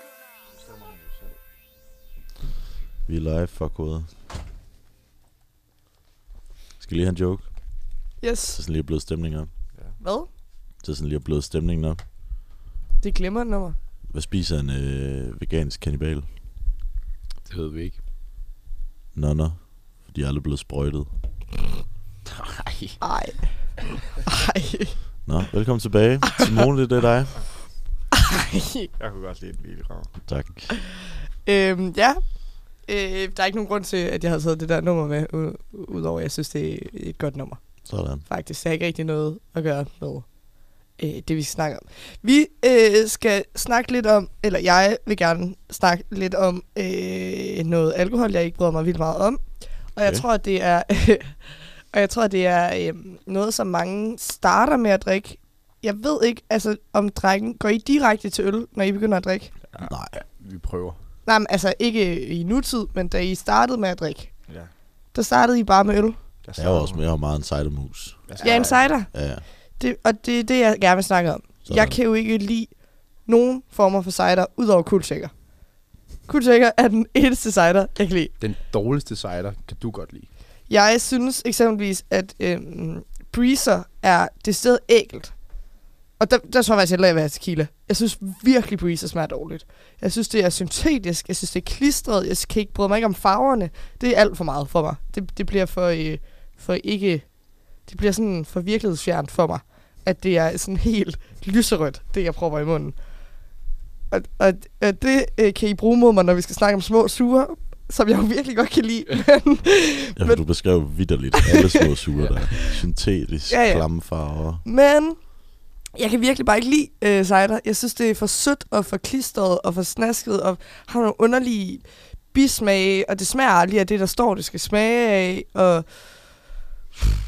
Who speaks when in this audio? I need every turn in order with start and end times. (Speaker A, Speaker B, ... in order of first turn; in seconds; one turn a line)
Speaker A: 0.6-1.4
Speaker B: 3.1-4.2
Speaker B: 6.8-7.5
Speaker C: 8.2-8.6
Speaker B: 8.5-9.5
Speaker C: 10.0-10.3
Speaker B: 10.8-12.0
Speaker C: 13.0-13.8
Speaker B: 14.1-16.3
Speaker D: 17.5-18.0
Speaker B: 19.1-21.1
Speaker D: 22.3-23.0
Speaker C: 23.0-23.8
Speaker C: 24.3-25.0
Speaker B: 25.2-27.5
Speaker C: 28.2-28.9
Speaker A: 29.0-30.1
Speaker B: 30.3-30.7
Speaker C: 31.4-59.5
Speaker B: 37.9-38.2
Speaker B: 50.0-50.2
Speaker B: 59.8-60.2
Speaker D: 60.1-61.0
Speaker C: 61.2-64.5
Speaker A: 64.5-64.7
Speaker C: 65.1-66.2
Speaker A: 66.4-67.0
Speaker B: 66.6-68.3
Speaker D: 68.3-68.8
Speaker A: 68.3-68.8
Speaker C: 68.4-78.3
Speaker B: 69.1-69.5
Speaker B: 71.7-72.0
Speaker D: 78.4-80.3
Speaker C: 80.7-103.1
Speaker C: 104.1-110.8
Speaker B: 110.2-114.6
Speaker C: 111.4-111.8
Speaker C: 113.5-126.4